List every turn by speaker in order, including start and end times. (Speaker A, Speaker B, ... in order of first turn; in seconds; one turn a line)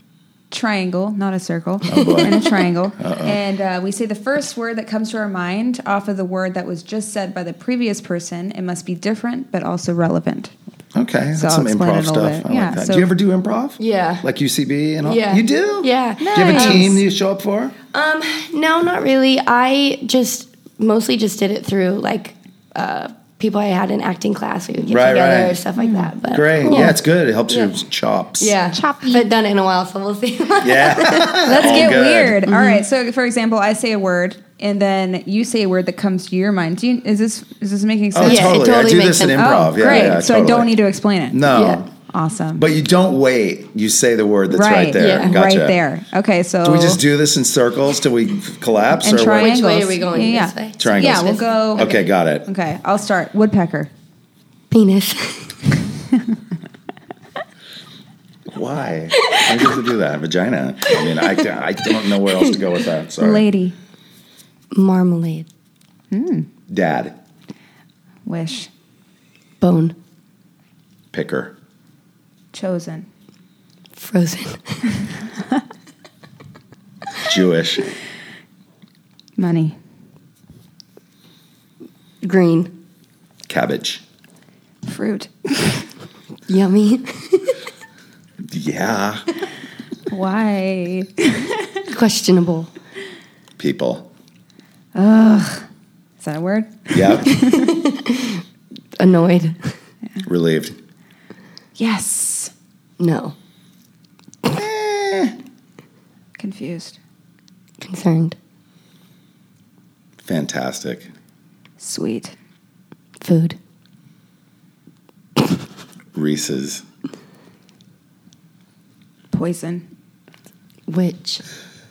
Speaker A: 0.5-10.5
Speaker B: 1.9-3.4
Speaker C: 1.9-2.5
Speaker B: 10.9-17.7
Speaker A: 11.3-13.1
Speaker C: 13.8-14.2
Speaker C: 15.0-17.0
Speaker A: 16.2-16.9
Speaker C: 17.9-26.9
Speaker B: 24.9-25.6
Speaker A: 25.8-26.1
Speaker B: 26.3-28.6
Speaker A: 26.7-26.9
Speaker C: 27.5-27.7
Speaker C: 28.4-31.9
Speaker A: 28.7-29.2
Speaker B: 30.6-32.4
Speaker A: 31.4-38.6
Speaker C: 32.5-32.8
Speaker B: 38.1-40.7
Speaker C: 38.2-40.1
Speaker A: 39.3-41.4
Speaker B: 41.3-41.9
Speaker C: 41.5-41.8
Speaker A: 42.1-42.6
Speaker B: 42.5-45.8
Speaker A: 44.5-47.0
Speaker C: 45.0-45.3
Speaker B: 46.6-49.5
Speaker A: 49.0-51.9
Speaker C: 49.1-52.0
Speaker B: 50.8-52.5
Speaker A: 52.4-53.9
Speaker C: 54.7-55.7
Speaker B: 58.5-63.4
Speaker C: 59.2-59.7
Speaker C: 60.8-62.7
Speaker A: 63.2-63.7
Speaker C: 64.7-65.5
Speaker A: 66.1-66.5
Speaker B: 66.7-67.1
Speaker A: 68.2-68.7
Speaker C: 69.6-69.9
Speaker B: 71.1-71.5
Speaker A: 72.5-73.0
Speaker C: 74.0-75.0
Speaker B: 77.2-77.9
Speaker A: 79.4-79.8
Speaker C: 82.2-82.7
Speaker B: 83.5-84.0
Speaker A: 84.8-85.8
Speaker C: 86.5-87.6
Speaker B: 88.5-89.2
Speaker A: 90.1-91.7
Speaker C: 91.9-92.7
Speaker B: 93.6-94.1
Speaker A: 94.9-95.7
Speaker A: 96.2-97.7
Speaker B: 96.9-97.3
Speaker C: 97.2-98.4
Speaker C: 99.0-99.7
Speaker B: 100.2-100.7
Speaker A: 101.8-102.5
Speaker C: 103.0-103.3
Speaker B: 104.4-105.3
Speaker A: 106.4-107.0
Speaker C: 107.8-108.3
Speaker B: 110.2-111.1
Speaker A: 111.8-112.3
Speaker C: 113.2-113.6
Speaker B: 116.1-116.8
Speaker A: 119.3-119.8
Speaker C: 120.9-121.4